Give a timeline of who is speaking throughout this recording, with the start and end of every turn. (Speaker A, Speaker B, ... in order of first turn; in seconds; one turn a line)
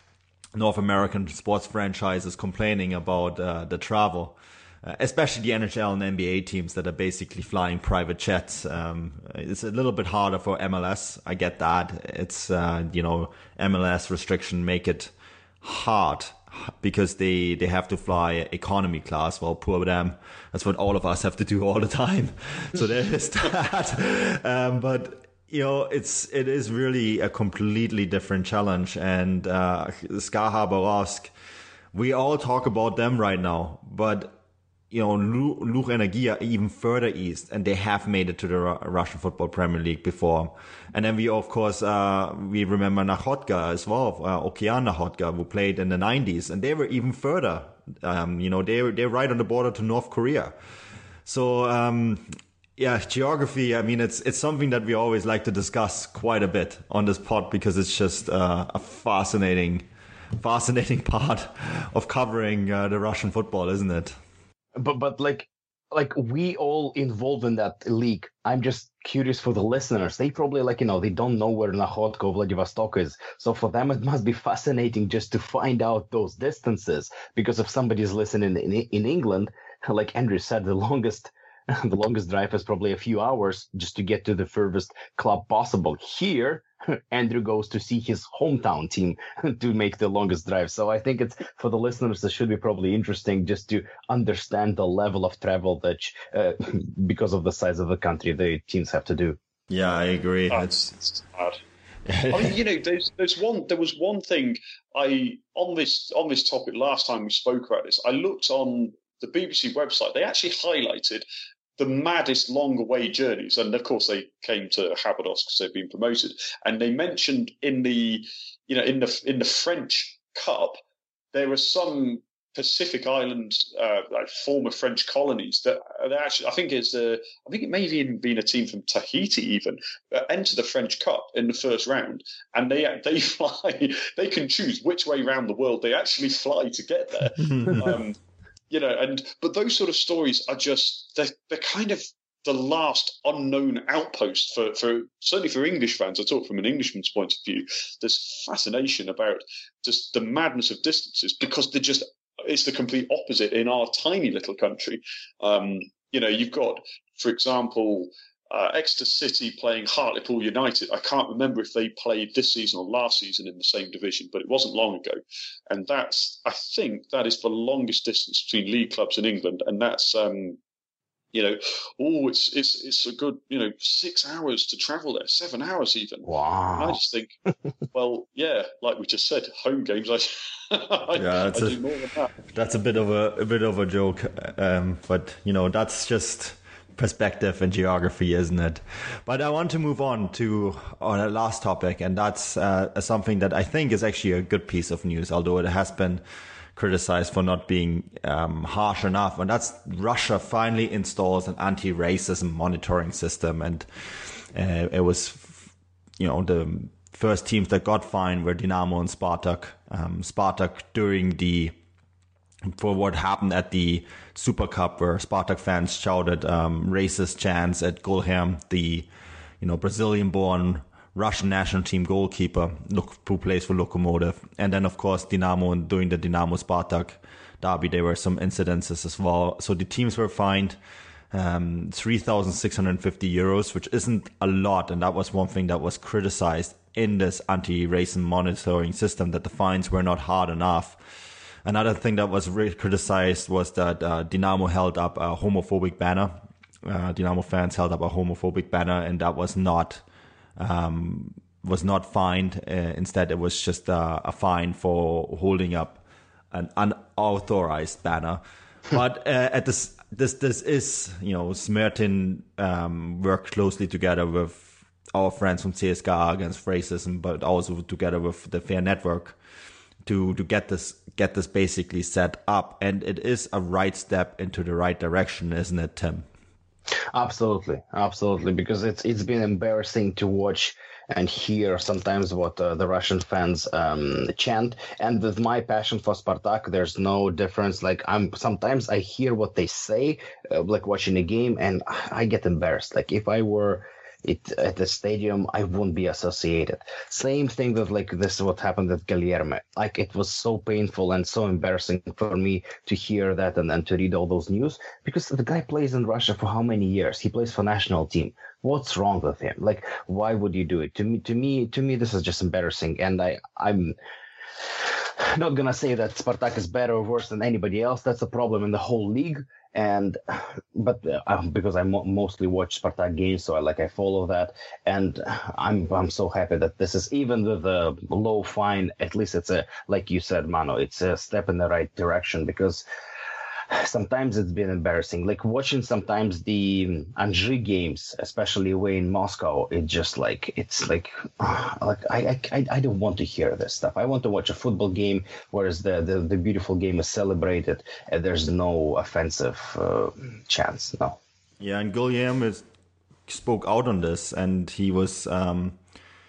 Speaker A: 0.5-31.3
Speaker A: 31.9-34.4
Speaker A: 34.9-50.5
Speaker A: 51.2-52.2
Speaker A: 52.8-59.9
Speaker A: 60.4-64.2
Speaker B: 64.8-99.4
Speaker A: 99.7-100.9
Speaker C: 100.5-101.6
Speaker A: 102.1-102.5
Speaker C: 102.3-111.2
Speaker C: 111.8-120.8
Speaker C: 121.3-138.2
Speaker A: 137.4-137.9
Speaker C: 138.7-170.6
Speaker C: 171.3-177.3
Speaker B: 176.2-177.0
Speaker C: 177.9-182.3
Speaker A: 181.1-181.8
Speaker A: 182.5-196.2
Speaker A: 196.8-203.9
Speaker A: 204.5-205.7
Speaker A: 206.2-211.7
Speaker A: 212.7-219.1
Speaker A: 219.6-230.8
Speaker A: 231.3-241.0
Speaker A: 241.6-250.0
Speaker A: 250.6-269.4
Speaker A: 270.0-276.3
Speaker B: 277.1-313.9
Speaker B: 315.2-332.8
Speaker B: 333.7-351.2
Speaker A: 351.6-352.6
Speaker A: 353.3-355.8